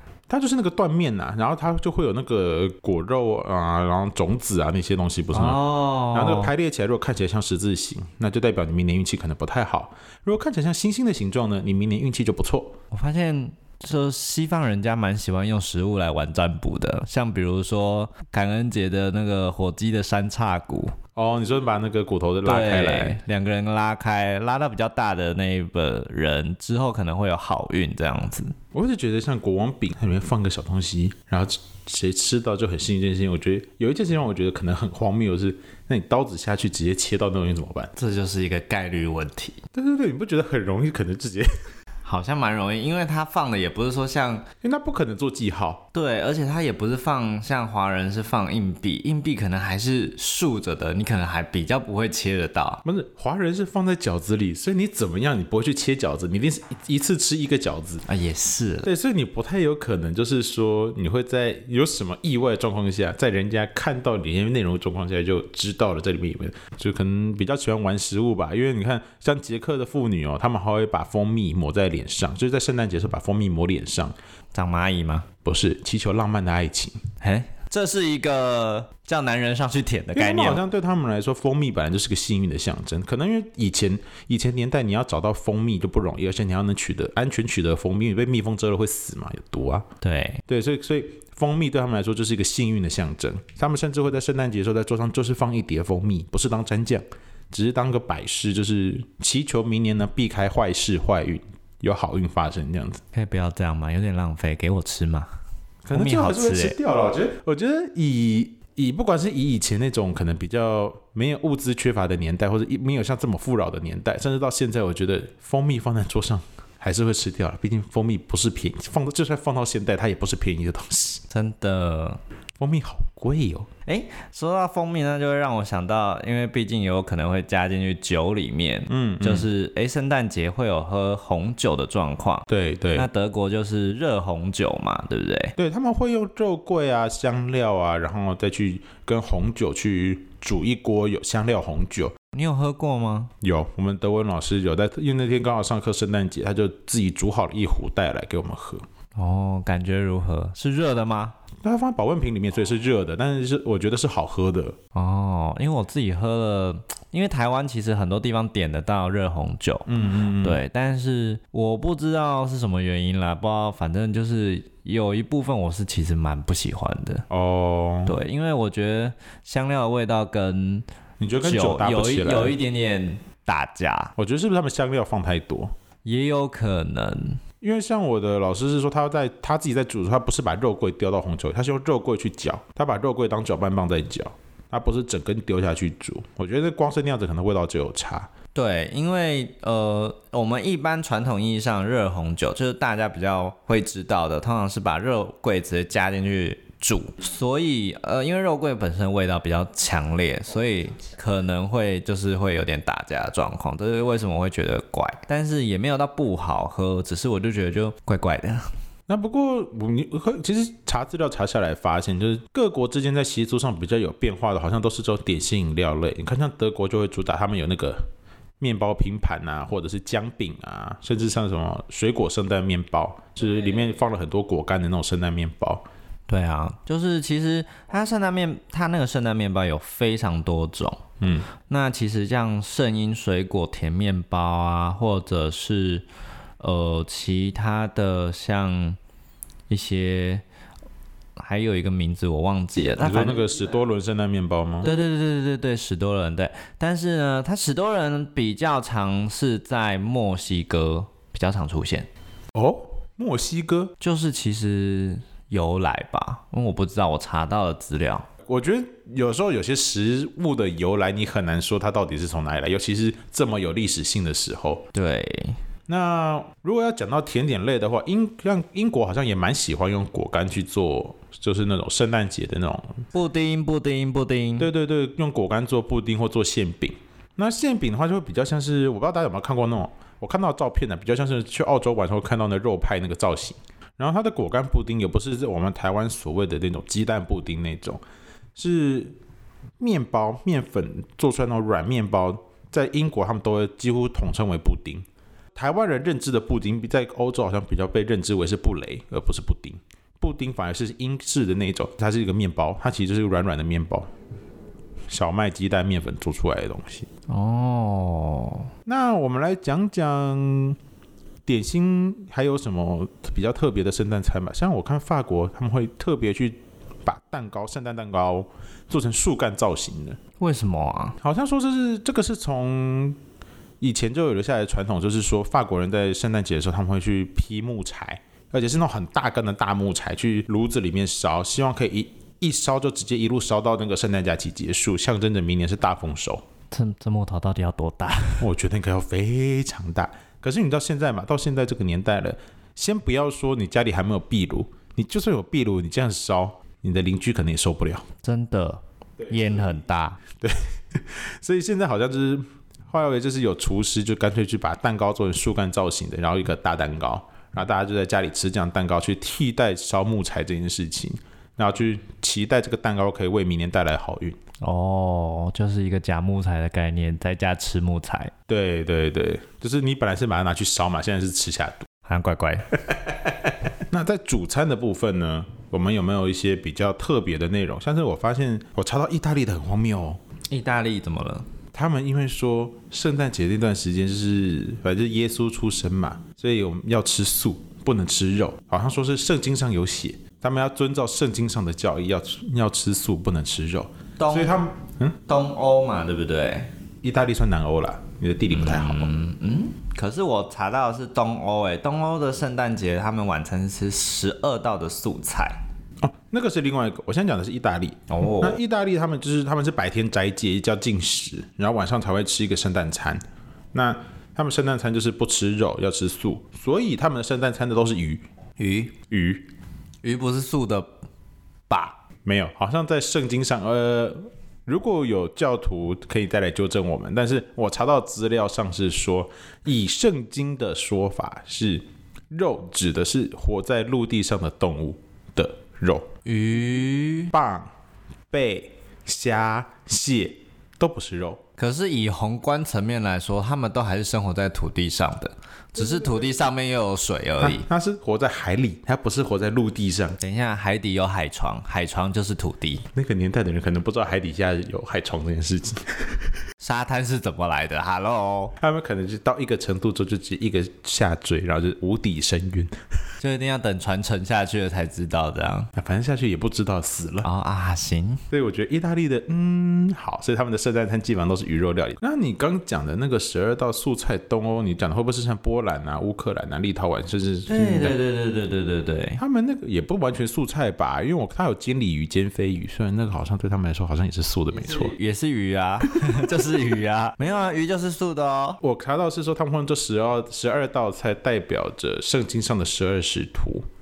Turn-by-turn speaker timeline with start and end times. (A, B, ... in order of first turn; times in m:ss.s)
0:00.3-0:12.8 A
0:05.3-0:06.5 B
0:12.9-0:21.0 B
0:21.2-0:23.2 A
0:22.4-0:28.6 B
0:28.7-0:37.9 A
0:38.0-0:39.6 B
0:39.7-0:41.5 A
0:42.0-0:44.5 B
0:44.6-0:45.9 A
0:45.9-0:52.8 B
0:52.8-0:58.0 A
0:58.1-0:58.9 B
0:58.8-1:14.2 A
1:14.5-1:15.3 B
1:15.4-1:17.0 A
1:17.2-1:20.6 B
1:20.2-1:29.9 A
1:30.0-1:30.4 B
1:30.5-1:43.0 A
1:43.1-1:45.3 B
1:45.9-2:01.2 A
1:45.9-1:46.8 B
2:01.3-2:02.2 B
2:02.6-2:03.7 A
2:03.9-2:15.6 B
2:08.9-2:09.5 A
2:12.5-2:13.1 A
2:15.6-2:22.2 A
2:22.3-2:23.3 B
2:23.4-2:28.8 A
2:29.2-2:31.4 B
2:31.6-2:34.8 A
2:34.9-2:39.9 B
2:39.9-2:40.6 A
2:40.4-2:47.3 B
2:47.3-2:48.2 A
2:48.1-2:50.8 B
2:51.2-2:52.6 A
2:51.4-2:54.1 B
2:54.2-2:55.7 A
2:56.0-2:57.4 B
2:57.6-3:08.3 A
3:08.6-3:28.7 B
3:29.1-3:38.0 A
3:38.6-3:45.8 A
3:46.3-3:51.1 B
3:51.2-3:51.5 A
3:51.7-3:56.0 B
3:56.6-3:59.0 B
3:59.7-4:00.4 B
4:01.4-4:03.5 B
4:02.9-4:04.9 A
4:04.8-4:12.1 B
4:12.5-4:13.9 A
4:14.0-4:18.3 B
4:18.5-4:24.9 A
4:24.9-4:25.6 B
4:25.9-4:33.0 A
4:33.1-4:34.7 B
4:34.6-4:48.0 A
4:48.6-4:49.2 A
4:49.8-5:04.1 A
5:05.1-5:07.1 A
5:07.3-5:08.7 B
5:08.9-5:10.8 A
5:11.5-5:20.2 A
5:20.4-5:21.2 B
5:21.2-5:23.2 A
5:23.8-5:36.4 A
5:36.7-5:38.5 B
5:38.4-5:48.1 A
5:48.2-5:50.2 B
5:49.2-5:49.8 A
5:50.4-6:04.4 A
6:04.6-6:08.3 B
6:08.5-6:11.9 A
6:12.1-6:12.8 B
6:13.1-6:13.3 A
6:13.9-6:20.2 A
6:20.5-6:21.5 B
6:21.7-6:35.2 A
6:34.2-6:34.6 B
6:35.3-6:36.7 B
6:37.0-6:39.1 A
6:38.5-6:45.6 B
6:46.0-6:53.2 A
6:48.1-6:48.6 B
6:53.7-6:58.2 A
6:58.6-6:59.0 B
6:59.1-6:59.5 A
7:00.0-7:00.9 B
7:01.7-7:02.0 B
7:02.2-7:16.1 A
7:16.2-7:17.3 B
7:17.3-7:17.7 A
7:18.3-7:21.4 A
7:21.6-7:27.7 B
7:25.8-7:26.3 A
7:27.4-7:30.2 A
7:30.2-7:32.9 B
7:33.0-7:36.2 A
7:36.6-7:38.6 B
7:38.6-7:42.7 A
7:43.2-7:45.7 B
7:45.8-7:47.3 A
7:47.2-7:48.2 B
7:48.3-7:58.0 A
7:57.5-7:59.2 B
7:59.2-8:05.0 A
8:04.5-8:08.6 B
8:08.6-8:13.7 A